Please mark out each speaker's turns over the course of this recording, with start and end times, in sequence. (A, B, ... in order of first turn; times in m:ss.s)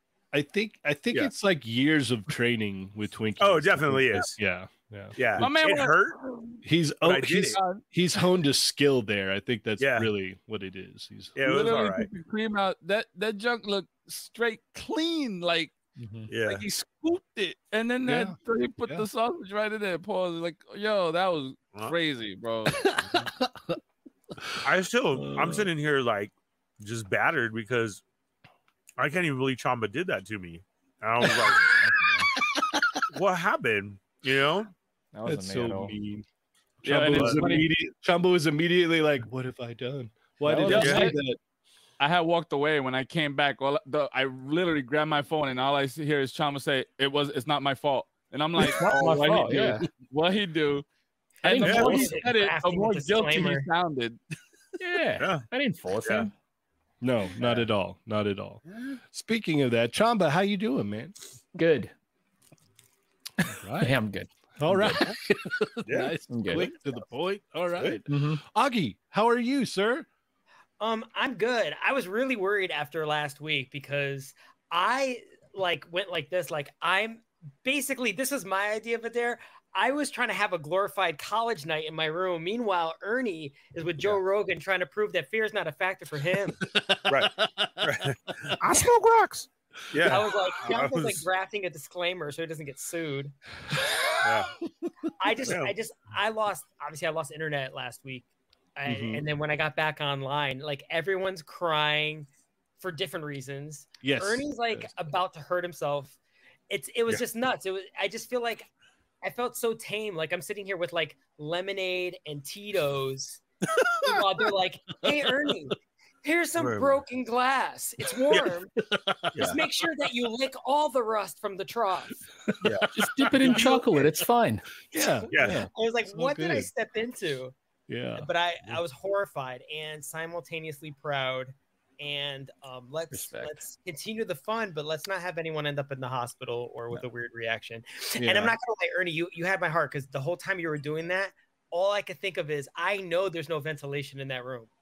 0:00.3-0:05.5 A
0:03.4-0:04.3 B
0:05.2-0:06.2 B
0:05.4-0:06.6 C
0:06.6-0:11.4 A
0:07.0-0:07.6 B
0:07.5-0:07.8 C
0:09.8-0:10.1 B
0:11.4-0:12.1 B
0:11.4-0:15.7 C
0:16.0-0:16.3 D
0:16.3-0:16.6 B
0:16.4-0:23.0 C
0:18.0-0:19.0 A
0:22.7-0:23.8 A
0:24.4-0:24.6 A
0:24.6-0:28.0 B
0:25.1-0:25.7 A
0:29.0-0:31.9 B
0:31.2-0:33.0 A
0:33.1-0:34.7 B
0:35.1-0:35.9 D
0:35.2-0:36.2 A
0:36.8-0:41.4 A
0:36.8-0:37.7 C
0:37.1-0:37.4 B
0:40.4-0:41.1 D
0:40.7-0:41.2 C
0:40.7-0:41.0 B
0:42.0-0:50.8 C
0:48.7-0:49.8 D
0:51.4-0:54.2 C
0:51.4-0:52.2 D
0:51.5-0:53.7 E
0:51.6-0:52.0 B
0:54.8-0:56.3 D
0:55.2-0:55.4 B
0:57.0-1:01.1 A
0:58.7-0:59.0 B
1:01.5-1:01.9 D
1:03.4-1:04.0 A
1:03.5-1:05.1 D
1:04.6-1:10.1 A
1:05.8-1:06.1 B
1:06.3-1:06.7 D
1:08.1-1:08.4 D
1:10.8-1:26.6 E
1:26.6-1:28.6 A
1:27.1-1:31.2 B
1:30.0-1:33.3 E
1:34.2-1:34.5 B
1:35.2-1:42.3 E
1:35.4-1:35.7 B
1:38.8-1:39.2 A
1:42.8-1:46.2 E
1:44.0-1:44.9 A
1:46.7-1:48.6 E
1:49.2-1:58.7 E
1:53.8-1:54.2 A
1:56.6-1:57.0 B
1:58.8-1:59.6 A
1:59.4-2:02.2 E
2:02.5-2:03.6 A
2:02.6-2:04.1 B
2:02.9-2:04.7 D
2:04.9-2:06.7 A
2:05.3-2:07.5 E
2:05.3-2:05.6 B
2:07.9-2:08.8 A
2:08.2-2:24.7 E
2:13.1-2:13.5 D
2:18.2-2:18.5 A